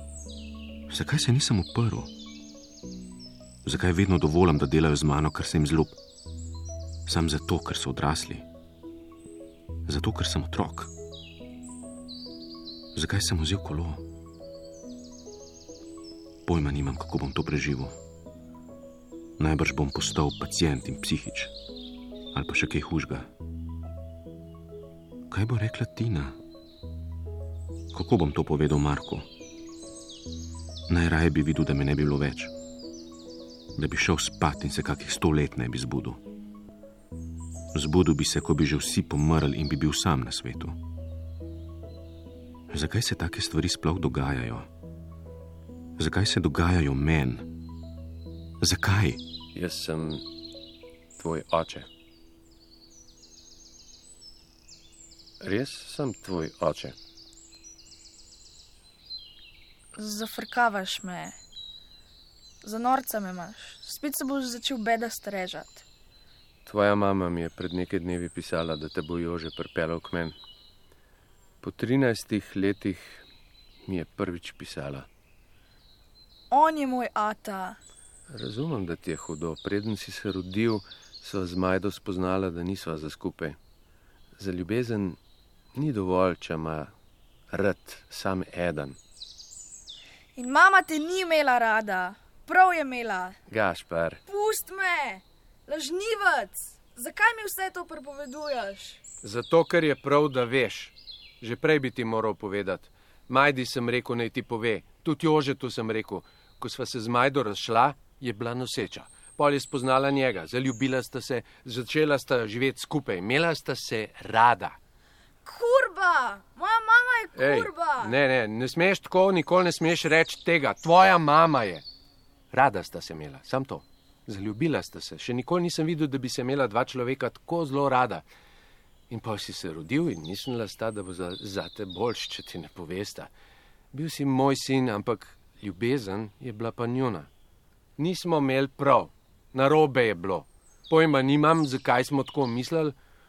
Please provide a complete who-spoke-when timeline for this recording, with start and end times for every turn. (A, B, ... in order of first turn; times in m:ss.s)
0:00.9-0:02.1 A
0:03.6-0:06.0 A
0:07.0-0:08.4 A
0:09.8-0:10.9 A
0:12.9-0:14.0 A
0:16.4-0:18.0 A
0:19.4-0:21.5 A
0:22.3-0:23.3 A
0:25.3-0:26.4 A
0:27.9-0:29.3 A
0:30.9-0:32.5 A
0:33.8-0:36.2 A
0:37.7-0:40.8 A
0:42.7-0:44.7 A
0:46.0-0:47.5 A
0:48.6-0:49.2 A
0:49.5-0:50.3 B
0:51.2-0:51.9 B
0:55.4-0:56.9 B
0:59.9-1:01.4 C
1:02.6-1:05.8 C
1:06.6-1:10.3 B
1:11.6-1:13.2 B
1:13.8-1:15.1 B
1:16.5-1:17.8 C
1:18.3-1:23.6 B
1:24.4-1:25.2 B
1:25.7-1:26.9 B
1:27.5-1:29.0 B
1:30.4-1:33.4 C
1:33.5-1:34.2 B
1:34.3-1:39.0 C
1:39.2-1:54.8 B
1:55.4-1:58.1 C
1:57.4-2:01.8 B
2:02.5-2:08.2 B
2:09.1-2:13.3 B
2:13.9-2:17.3 B
2:18.0-2:22.9 B